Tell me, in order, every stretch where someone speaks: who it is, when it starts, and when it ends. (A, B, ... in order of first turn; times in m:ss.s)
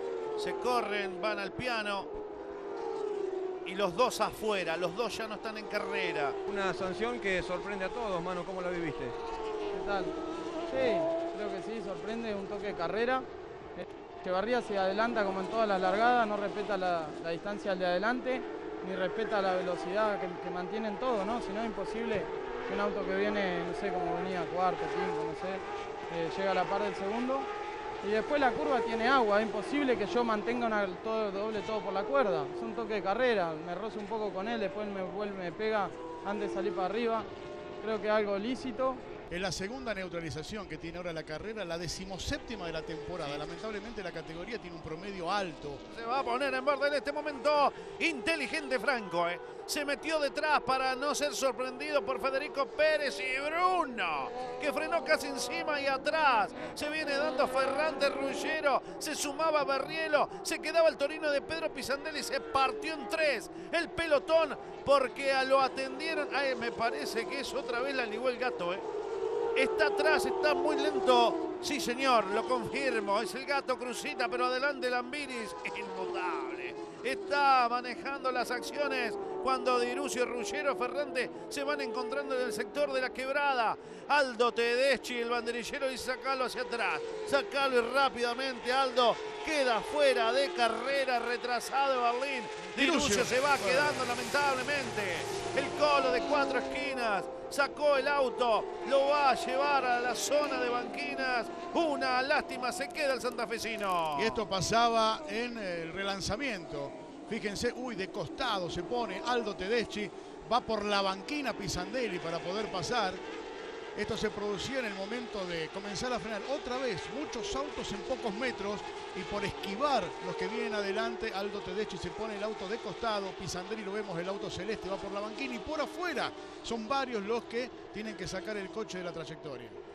0:00.4-0:02.1 A
0:03.6-0:06.4 A
0:06.5-0:09.2 B
0:09.7-0:10.1 C
0:10.7-0:27.5 C
0:28.0-0:37.3 C
0:37.8-0:39.0 C
0:39.3-0:45.8 D
0:45.9-1:08.8 A
1:09.6-1:44.4 A
1:32.8-1:34.0 D
1:44.1-1:53.2 D
1:53.9-2:09.8 D